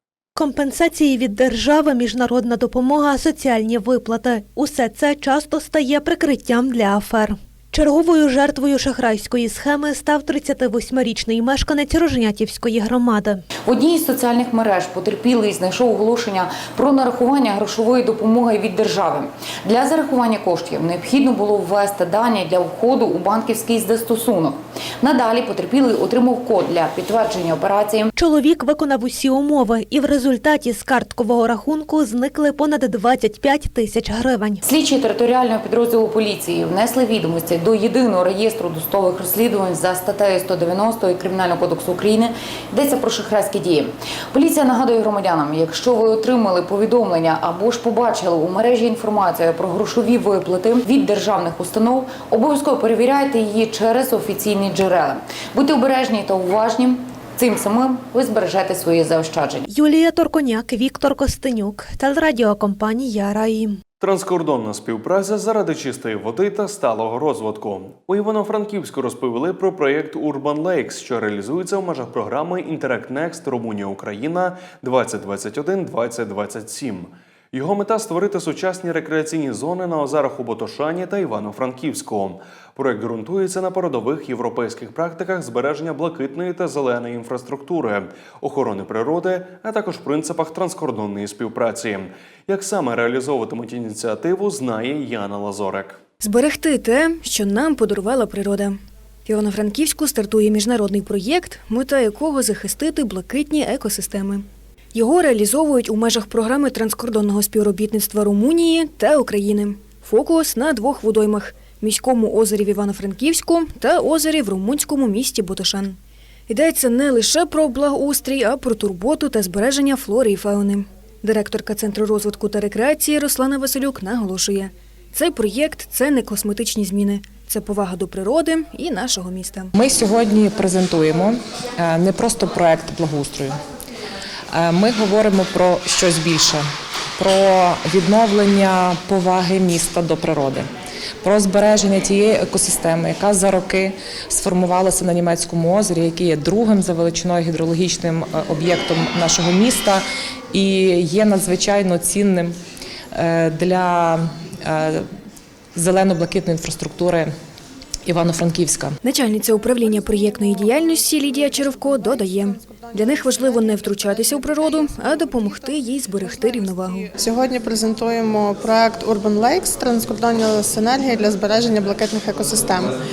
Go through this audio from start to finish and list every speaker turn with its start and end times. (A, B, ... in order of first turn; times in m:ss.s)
0:00.4-0:13.4 A
0:13.6-0:28.1 B
0:28.2-0:34.6 A
0:34.7-0:59.6 B
0:59.7-1:03.8 A
1:04.0-1:36.0 C
1:36.2-1:56.0 D
1:56.5-2:09.7 D
2:09.8-2:13.6 E
2:14.5-2:20.7 E
2:21.2-2:32.6 E
2:33.1-2:35.1 E
2:35.8-2:37.3 E
2:38.0-2:39.0 E
2:39.0-2:47.1 D
2:41.5-2:52.9 F